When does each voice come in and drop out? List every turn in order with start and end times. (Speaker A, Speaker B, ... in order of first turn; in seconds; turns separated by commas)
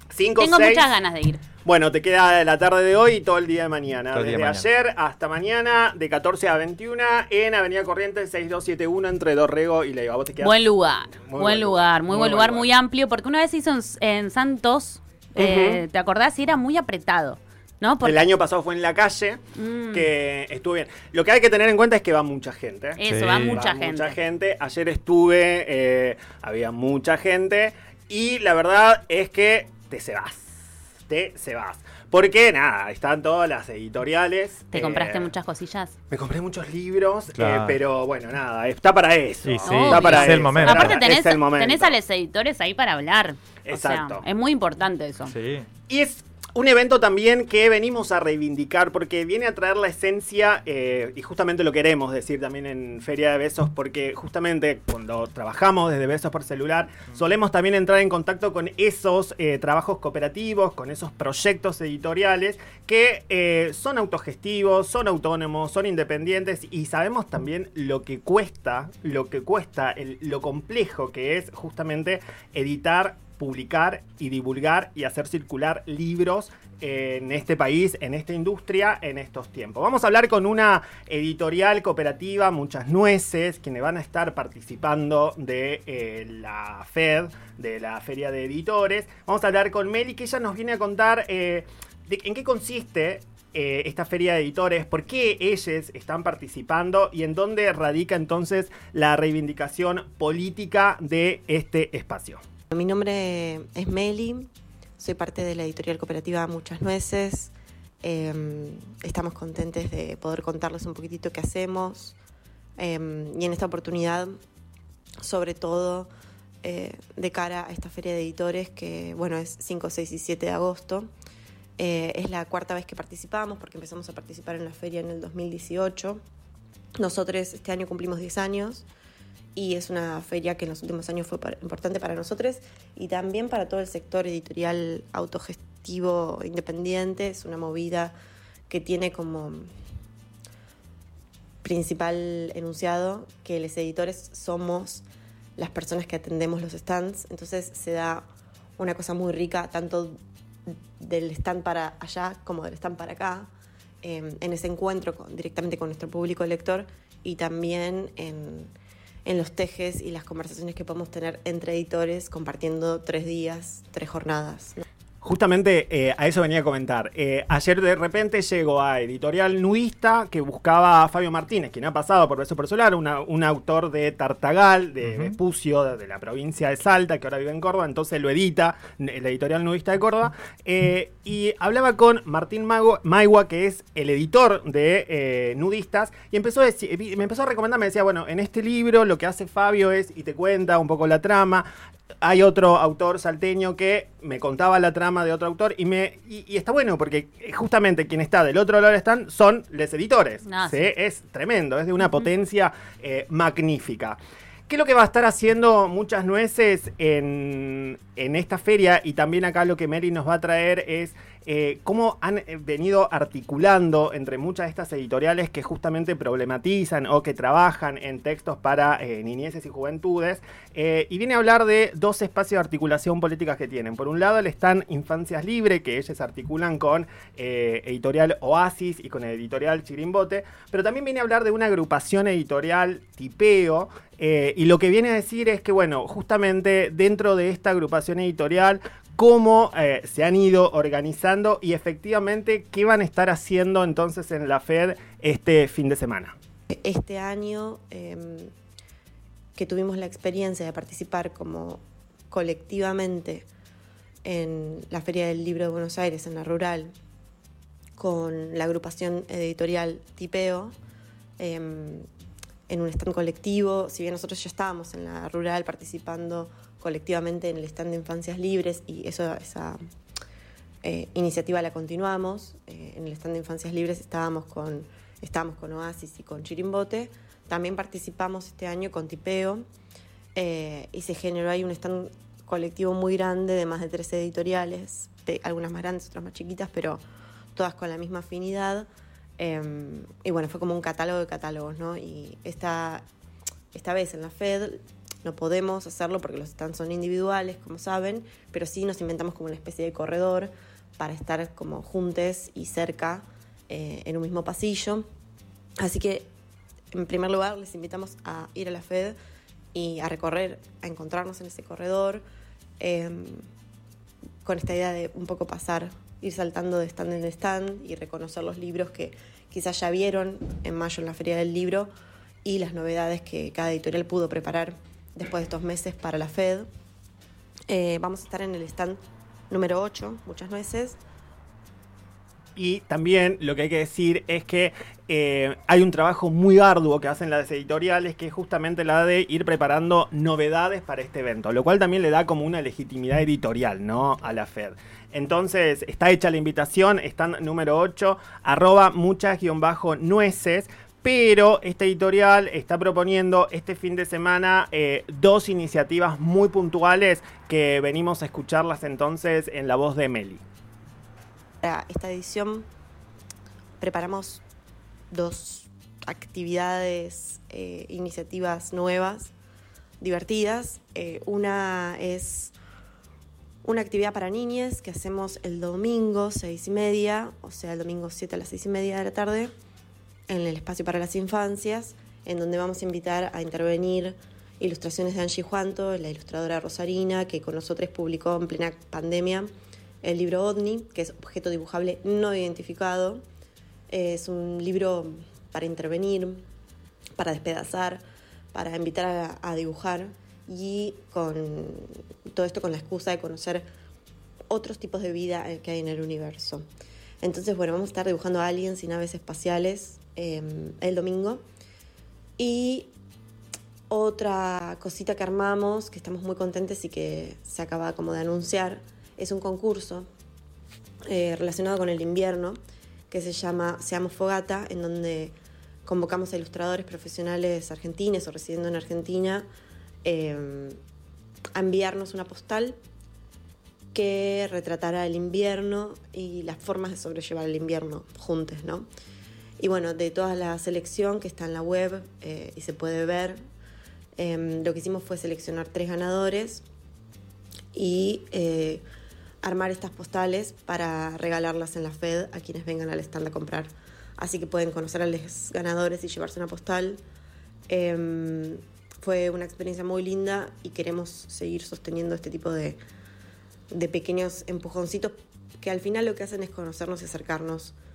Speaker A: 0.1-0.9, Speaker B: 0.4-1.4, Speaker A: 1.6-12.7, Speaker C: 4.1-4.7, Speaker B: 10.4-18.2, Speaker A: 15.4-15.8, Speaker A: 18.0-35.3, Speaker B: 19.6-20.1, Speaker B: 23.0-24.2, Speaker C: 23.1-23.6, Speaker B: 34.7-35.9, Speaker A: 36.1-42.0, Speaker C: 37.3-37.8, Speaker C: 39.4-41.0, Speaker B: 39.6-45.3, Speaker A: 43.6-44.2, Speaker C: 45.3-45.7, Speaker A: 45.9-102.4, Speaker D: 102.7-112.2, Speaker D: 112.8-114.3, Speaker D: 115.2-116.1, Speaker D: 116.6-121.1, Speaker D: 121.8-126.2, Speaker D: 127.0-128.8, Speaker D: 129.5-138.1, Speaker D: 138.7-139.7, Speaker D: 141.6-145.0, Speaker D: 145.6-148.2, Speaker D: 148.8-153.5, Speaker D: 154.0-158.7, Speaker D: 159.2-164.8, Speaker A: 165.2-191.7, Speaker C: 175.1-175.3, Speaker A: 192.2-204.2, Speaker B: 200.4-200.9, Speaker A: 204.7-246.3, Speaker D: 246.7-248.5, Speaker D: 249.6-253.4, Speaker D: 254.2-256.9, Speaker D: 258.0-260.7, Speaker D: 261.4-262.1, Speaker D: 262.7-269.8, Speaker D: 270.8-279.6, Speaker D: 280.3-287.0, Speaker D: 287.6-288.9, Speaker D: 289.4-293.1, Speaker D: 293.7-305.0, Speaker D: 305.8-306.3, Speaker D: 306.9-309.1, Speaker D: 309.7-312.2, Speaker D: 312.8-313.4, Speaker D: 314.4-321.9, Speaker D: 322.4-326.7, Speaker D: 327.7-329.0, Speaker D: 329.5-331.0, Speaker A: 332.6-360.4, Speaker D: 361.6-362.7, Speaker D: 363.8-364.4, Speaker D: 365.1-369.3, Speaker D: 370.0-372.5, Speaker D: 373.6-379.5, Speaker D: 380.3-389.5, Speaker D: 390.0-393.2, Speaker D: 393.9-396.4, Speaker D: 397.2-398.0, Speaker D: 398.5-403.6, Speaker D: 404.5-406.6, Speaker D: 407.2-411.4, Speaker D: 412.4-412.9, Speaker D: 413.9-420.1, Speaker D: 421.1-422.6, Speaker D: 423.1-425.3, Speaker D: 425.8-429.4, Speaker D: 430.1-430.8, Speaker D: 431.6-432.8, Speaker D: 433.9-438.9, Speaker D: 439.6-443.4, Speaker D: 444.2-446.6, Speaker D: 447.7-448.8, Speaker D: 449.4-457.0, Speaker D: 457.7-462.8, Speaker D: 463.7-467.8